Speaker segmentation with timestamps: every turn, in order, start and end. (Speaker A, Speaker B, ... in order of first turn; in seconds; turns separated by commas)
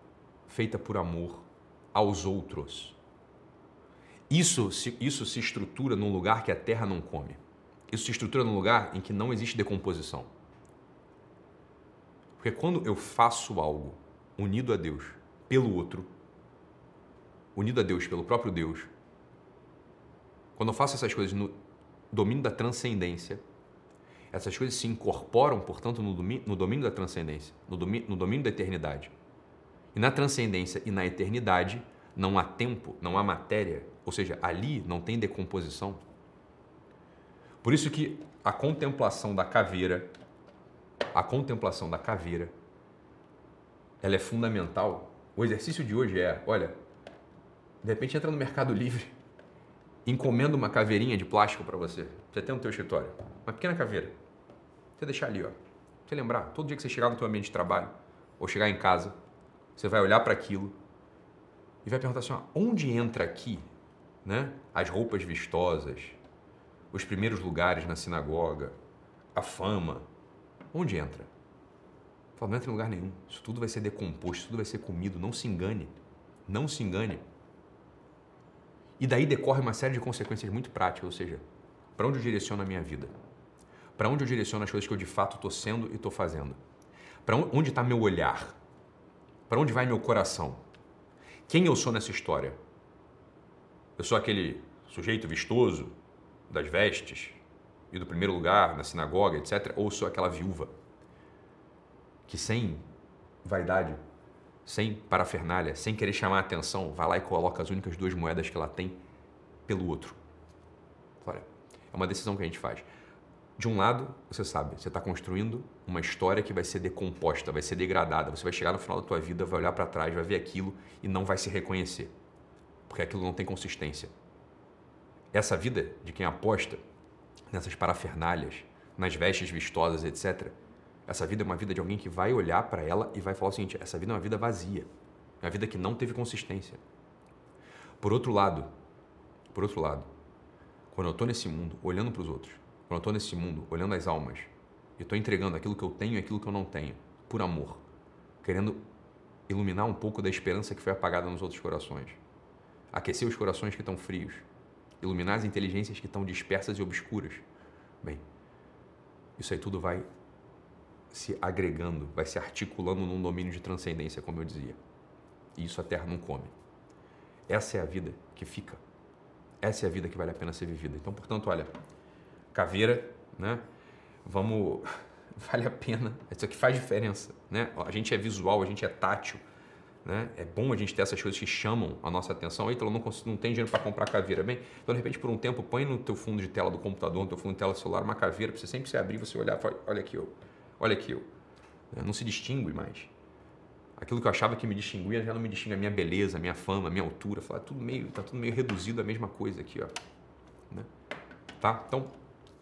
Speaker A: 0.5-3.0, Speaker A: 4.3-10.3, Speaker A: 12.4-16.1, Speaker A: 17.6-18.9, Speaker A: 20.6-21.5, Speaker A: 22.1-23.4, Speaker A: 24.3-29.1, Speaker A: 29.9-36.0, Speaker A: 37.6-40.1, Speaker A: 41.1-42.5, Speaker A: 44.0-46.8, Speaker A: 47.8-49.1, Speaker A: 50.0-54.2, Speaker A: 55.0-59.2, Speaker A: 59.8-60.8, Speaker A: 61.8-63.7, Speaker A: 64.2-66.2, Speaker A: 66.9-68.8, Speaker A: 69.3-70.1, Speaker A: 70.7-71.3, Speaker A: 72.4-75.9, Speaker A: 76.5-77.2, Speaker A: 79.0-81.4, Speaker A: 82.0-83.1, Speaker A: 84.0-86.6, Speaker A: 87.2-88.6, Speaker A: 89.5-90.6, Speaker A: 91.5-92.6, Speaker A: 94.0-96.0, Speaker A: 96.5-97.4, Speaker A: 97.9-100.7, Speaker A: 102.3-102.8, Speaker A: 103.4-104.0, Speaker A: 104.7-109.0, Speaker A: 109.7-110.2, Speaker A: 111.2-112.9, Speaker A: 113.6-122.1, Speaker A: 122.9-124.1, Speaker A: 125.3-126.8, Speaker A: 127.5-130.6, Speaker A: 131.1-134.9, Speaker A: 135.4-136.8, Speaker A: 138.0-138.7, Speaker A: 139.5-140.1, Speaker A: 140.9-147.8, Speaker A: 148.4-148.8, Speaker A: 149.5-152.2, Speaker A: 152.9-154.4, Speaker A: 155.0-157.4, Speaker A: 159.4-160.1, Speaker A: 161.1-164.8, Speaker A: 165.6-166.5, Speaker A: 167.5-168.8, Speaker A: 169.6-171.7, Speaker A: 172.5-173.6, Speaker A: 174.2-179.4, Speaker A: 180.0-191.3, Speaker A: 191.9-193.1, Speaker A: 194.0-199.9, Speaker A: 201.6-202.1